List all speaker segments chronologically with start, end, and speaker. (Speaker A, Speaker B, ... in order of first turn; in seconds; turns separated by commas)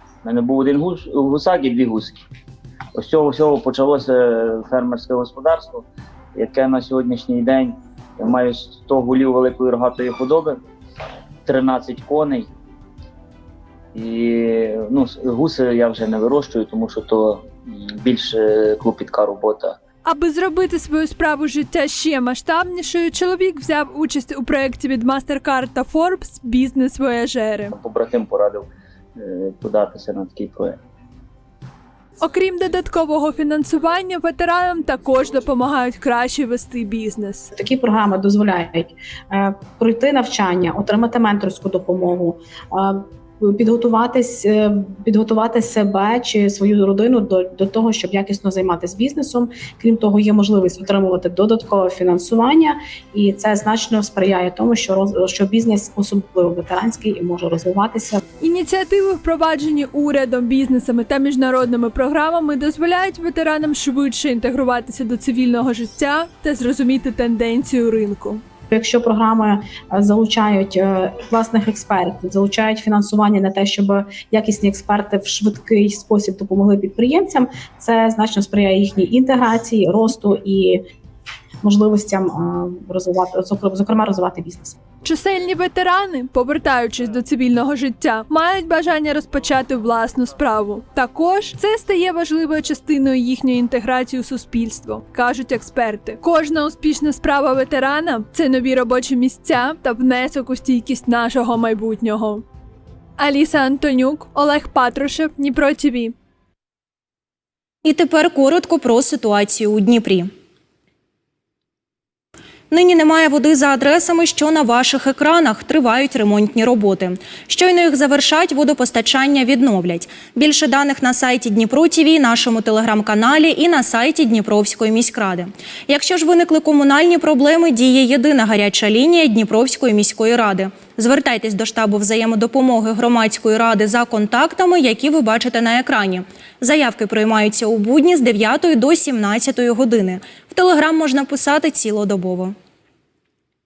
Speaker A: 0.2-2.2, Speaker A: 2.9-10.6, Speaker A: 11.4-12.5, Speaker A: 13.9-19.8, Speaker B: 20.0-27.7, Speaker A: 27.7-30.8, Speaker B: 32.2-37.5, Speaker C: 37.5-58.2, Speaker B: 58.4-68.4, Speaker C: 68.7-80.8, Speaker C: 81.6-84.8, Speaker B: 85.0-102.4, Speaker B: 103.2-106.1, Speaker D: 107.8-110.3, Speaker D: 112.7-142.5